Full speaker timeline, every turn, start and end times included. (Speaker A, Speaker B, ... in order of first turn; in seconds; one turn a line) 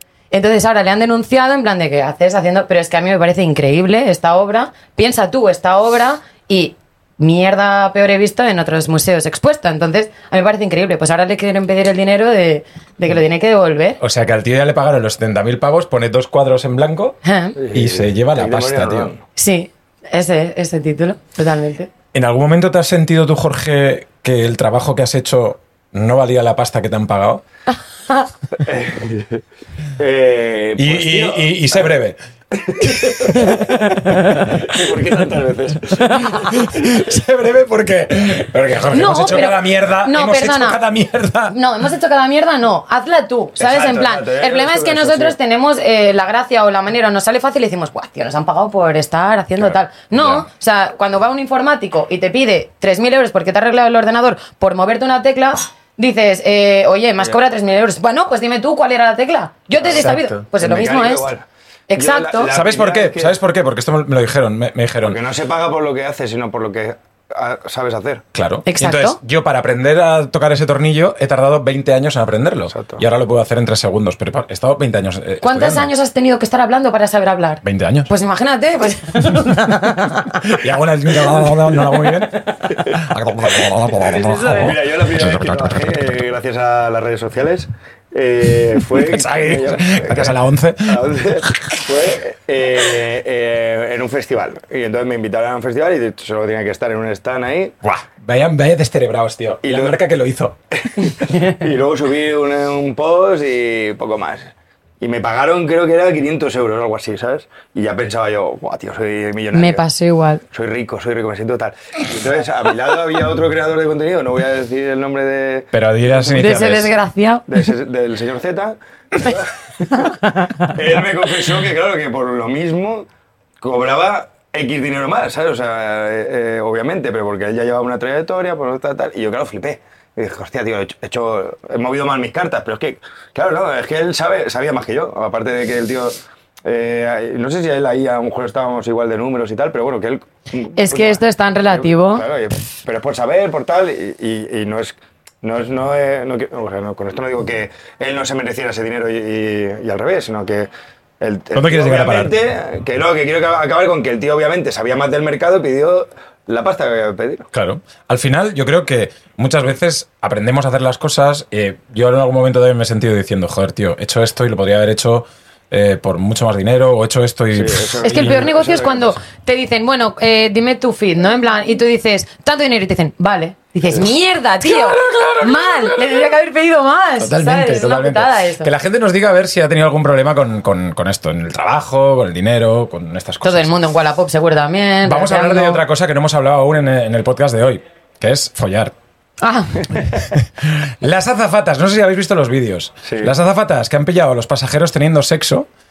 Speaker A: 0.3-14.0
Speaker B: 14.0-17.2
Speaker A: 17.2-17.6
Speaker C: 17.6-19.2
Speaker B: 17.7-19.1
Speaker A: 19.4-21.9
Speaker B: 22.1-27.4
Speaker C: 28.6-29.4
Speaker C: 30.0-31.8
Speaker B: 30.8-32.2
Speaker C: 32.5-33.6
Speaker B: 32.8-35.0
Speaker C: 34.5-36.2
Speaker B: 36.1-41.6
Speaker A: 36.1-36.5
Speaker A: 38.9-40.8
Speaker A: 41.5-61.3
Speaker C: 43.6-45.4
Speaker B: 50.1-50.4
Speaker B: 59.8-60.5
Speaker C: 60.6-63.4
Speaker A: 61.9-62.5
Speaker B: 62.5-65.2
Speaker C: 65.0-68.2
Speaker B: 68.3-75.9
Speaker A: 68.7-69.2
Speaker C: 72.7-73.0
Speaker A: 75.4-80.6
Speaker B: 77.6-78.1
Speaker B: 80.4-85.9
Speaker A: 81.9-82.3
Speaker A: 84.0-84.8
Speaker C: 84.0-97.7
Speaker B: 88.8-91.8
Speaker B: 97.8-100.6
Speaker C: 99.6-100.0
Speaker C: 100.9-109.8
Speaker A: 109.5-110.4
Speaker C: 110.5-116.5
Speaker B: 115.7-116.9
Speaker A: 116.3-117.6
Speaker C: 117.5-120.1
Speaker A: 120.0-120.7
Speaker C: 120.7-123.1
Speaker C: 123.6-150.7
Speaker A: 140.8-142.3
Speaker C: 151.2-157.5
Speaker B: 151.5-152.3
Speaker B: 157.5-168.3
Speaker C: 167.5-169.2
Speaker A: 168.0-178.7
Speaker B: 174.6-176.2
Speaker B: 177.2-183.7
Speaker A: 183.4-185.8
Speaker B: 185.1-188.9
Speaker A: 189.4-190.0
Speaker B: 190.1-195.7
Speaker C: 193.0-193.3